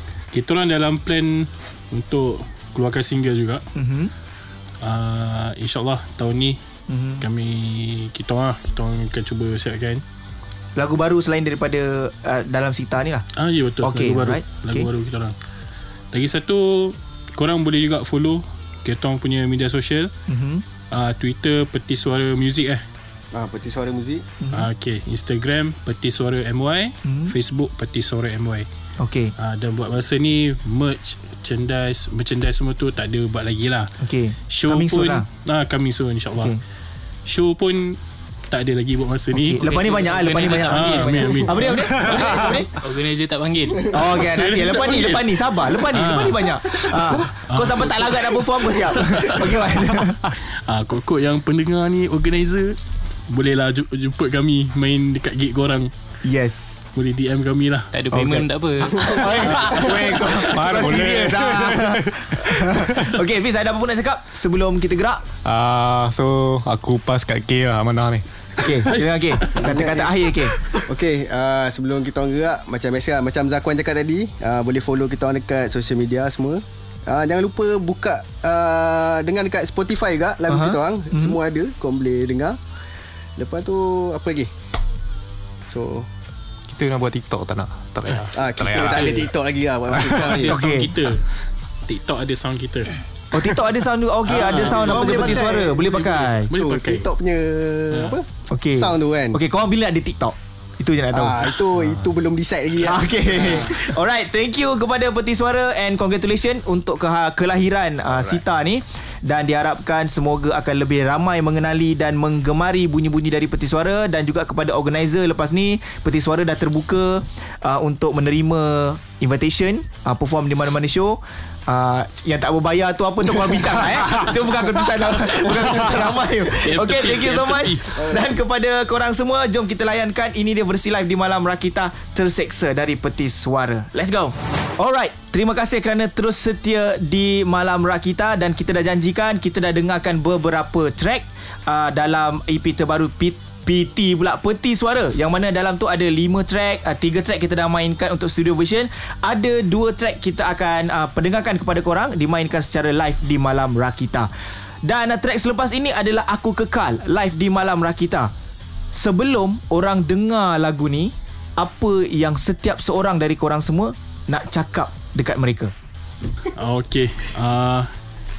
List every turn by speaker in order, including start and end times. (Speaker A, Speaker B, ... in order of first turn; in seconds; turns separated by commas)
Speaker A: 0.3-3.6, Speaker B: 3.8-4.1, Speaker A: 4.8-6.6, Speaker B: 6.9-7.2, Speaker A: 7.2-10.0, Speaker B: 10.8-13.3, Speaker A: 13.4-15.4, Speaker B: 13.8-14.9, Speaker A: 16.1-20.1, Speaker B: 20.3-20.6, Speaker A: 20.9-22.8, Speaker C: 23.3-24.3, Speaker B: 24.4-24.7, Speaker A: 24.5-28.7, Speaker B: 27.1-27.3, Speaker B: 29.0-29.3, Speaker A: 29.4-33.9, Speaker B: 34.0-35.3, Speaker A: 34.5-36.6, Speaker B: 36.4-36.6, Speaker A: 37.2-39.7, Speaker B: 39.3-42.8, Speaker D: 39.6-44.2, Speaker A: 40.5-42.5, Speaker B: 43.9-50.2, Speaker A: 44.1-55.9, Speaker B: 56.2-56.8, Speaker A: 56.9-57.9, Speaker D: 57.9-60.4, Speaker B: 58.1-65.2, Speaker C: 59.0-60.0, Speaker E: 59.4-62.8, Speaker E: 65.4-68.7, Speaker B: 68.6-70.6, Speaker A: 68.8-69.5, Speaker C: 69.5-82.6, Speaker B: 80.5-81.4, Speaker C: 83.4-84.5, Speaker C: 85.7-86.1, Speaker E: 86.7-89.0, Speaker A: 88.1-89.3, Speaker C: 88.3-90.6, Speaker E: 90.0-90.4, Speaker A: 90.1-91.3, Speaker B: 90.5-90.9, Speaker A: 91.8-93.0, Speaker B: 93.3-96.5, Speaker C: 94.3-95.9, Speaker A: 94.3-97.1, Speaker C: 96.5-99.4, Speaker B: 98.5-101.5, Speaker C: 101.1-103.8, Speaker B: 102.8-154.3, Speaker C: 108.1-108.4, Speaker A: 125.6-128.0, Speaker C: 128.0-128.3, Speaker B: 154.8-158.3, Speaker B: 158.9-165.7, Speaker A: 166.5-167.9